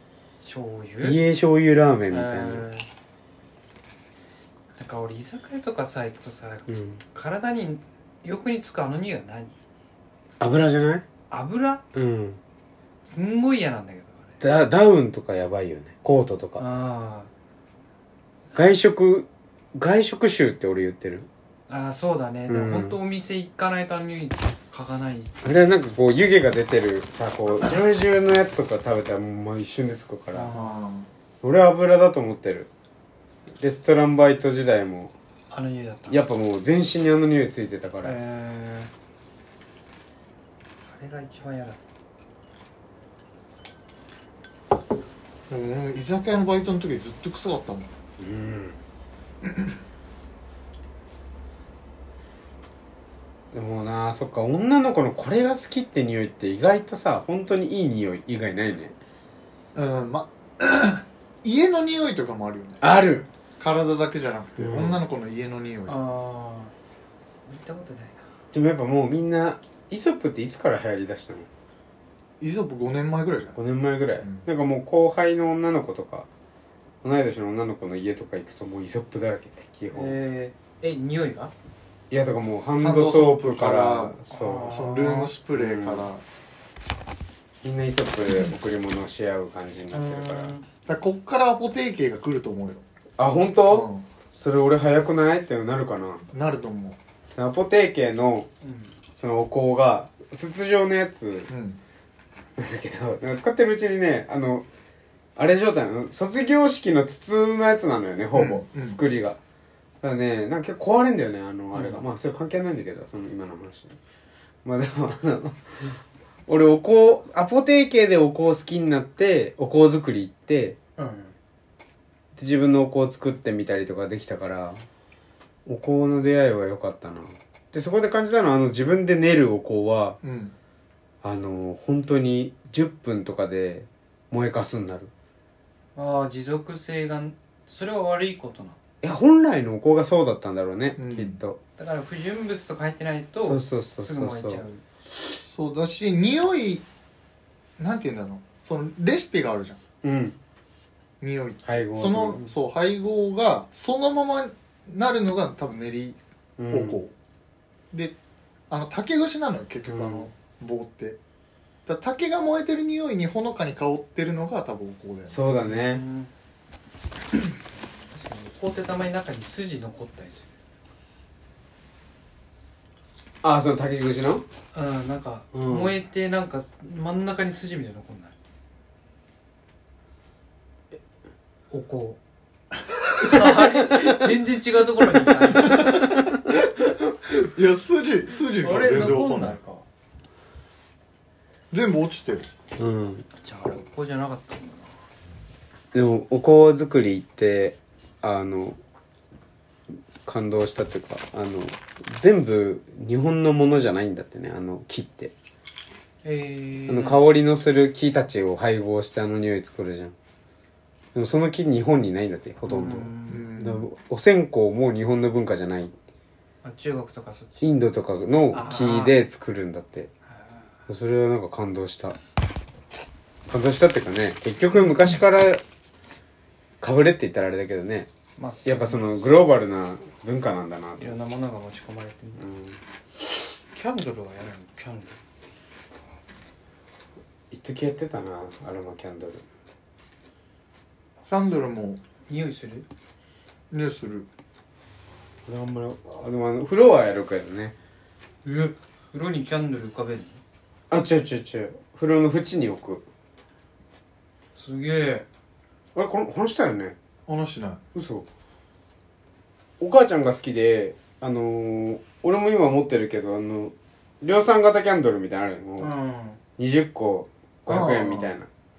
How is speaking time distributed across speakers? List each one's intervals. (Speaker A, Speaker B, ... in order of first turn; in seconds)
Speaker A: 0.4-1.2, 2.1-2.9, 4.7-9.5, 11.3-11.8, 13.1-14.4, 16.6-17.3, 21.7-25.3, 30.3-30.8, 35.5-36.2, 38.0-38.9, 40.9-41.8, 65.9-66.7, 67.5-68.2, 79.9-81.5, 84.3-85.3, 89.9-90.7, 98.6-98.9, 111.7-112.0, 121.0-121.3, 135.9-138.8, 141.8-144.8, 165.6-166.3, 168.1-170.5, 174.7-178.3, 181.7-182.2, 183.2-186.2, 188.6-189.8, 193.4-194.9, 206.2-207.2, 212.7-213.5, 216.6-217.7, 218.5-219.1, 220.3-220.6, 228.4-229.3, 231.0-232.4, 233.7-235.2, 242.3-242.8, 248.4-250.4, 254.5-255.2, 265.8-266.4
Speaker B: 1.0-2.7, 6.7-7.0, 10.4-11.0, 11.9-12.4, 14.4-16.6, 18.5-21.3, 22.5-23.0, 25.4-30.5, 31.4-32.7, 33.6-35.1, 36.1-38.2, 48.2-48.8, 53.5-58.9, 62.8-63.3, 64.6-65.0, 68.5-71.5, 73.6-76.3, 77.0-80.2, 82.1-84.8, 85.5-86.1, 87.6-90.5, 93.2-96.3, 97.3-98.5, 99.2-101.5, 102.6-104.6, 105.3-109.4, 110.0-114.0, 114.6-120.8, 122.4-124.8, 125.7-130.2, 131.2-135.1, 139.0-141.6, 143.4-144.6, 150.0-150.3, 151.6-152.4, 156.6-157.0, 159.9-160.3, 165.3-166.0, 173.4-174.4, 175.5-175.9, 183.4-184.1, 192.8-193.2, 195.9-198.8, 200.2-205.3, 206.9-210.1, 211.1-215.9, 217.6-220.1, 220.9-222.2, 223.5-225.6, 226.8-228.1, 228.6-231.1, 232.4-232.8, 237.5-239.4, 245.4-247.7, 250.9-253.0, 255.9-256.9, 257.9-258.2, 259.8-265.9, 266.6-268.5
Speaker C: 30.5-31.1, 45.5-47.9, 49.4-49.8, 59.7-62.8, 63.6-66.0, 72.4-73.6, 82.8-86.2, 90.8-92.8, 93.7-94.0, 96.3-97.0, 101.5-101.8, 108.3-109.0, 130.2-130.5, 141.0-141.4, 145.3-146.8, 147.8-149.8, 151.2-157.1, 158.7-161.2, 161.8-165.4, 185.8-189.6, 191.7-192.5, 213.3-213.9, 241.3-242.0, 243.7-244.3, 257.3-257.8, 267.7-268.3